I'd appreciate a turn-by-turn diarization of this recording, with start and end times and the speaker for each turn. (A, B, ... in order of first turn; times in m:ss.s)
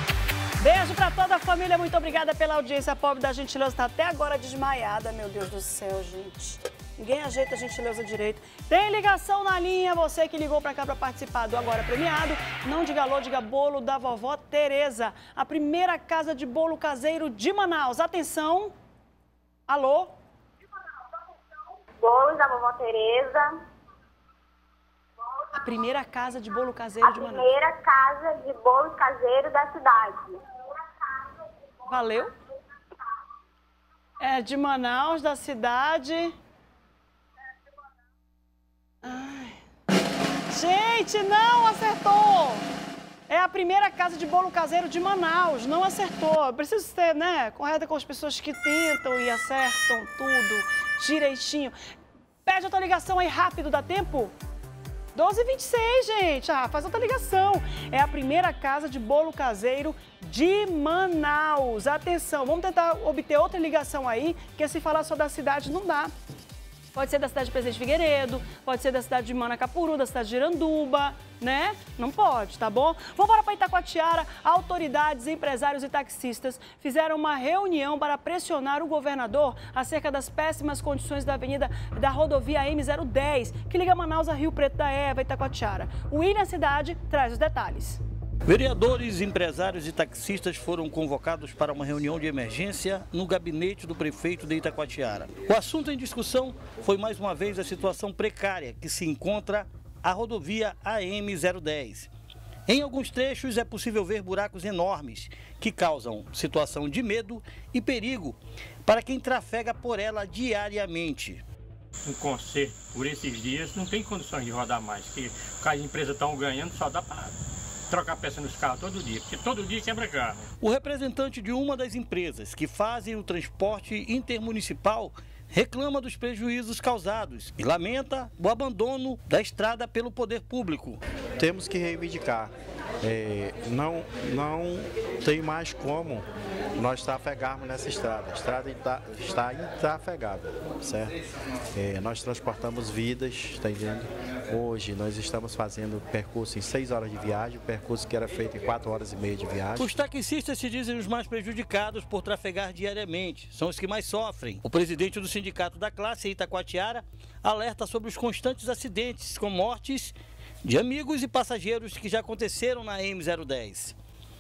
0:00.6-0:18.7 A
0:19.7-0:20.1 A
0:22.0-0:23.5 B
0:25.5-0:27.6 A
0:27.0-0:30.3 B
0:31.9-0:32.3 A
0:34.2-0:36.4 A
0:39.0-0:39.6 A
0:40.5-0:42.7 A
0:43.3-0:51.7 A
0:52.4-0:54.4 A
0:55.2-1:06.1 A
1:06.9-1:28.0 A
1:28.5-1:42.1 C
1:42.7-1:51.4 C
1:52.1-1:57.3 D
1:57.9-2:00.4 D
2:00.6-2:11.0 C
2:11.4-2:12.5 E
2:13.0-2:21.2 E
2:21.7-2:30.0 E
2:29.8-2:44.0 C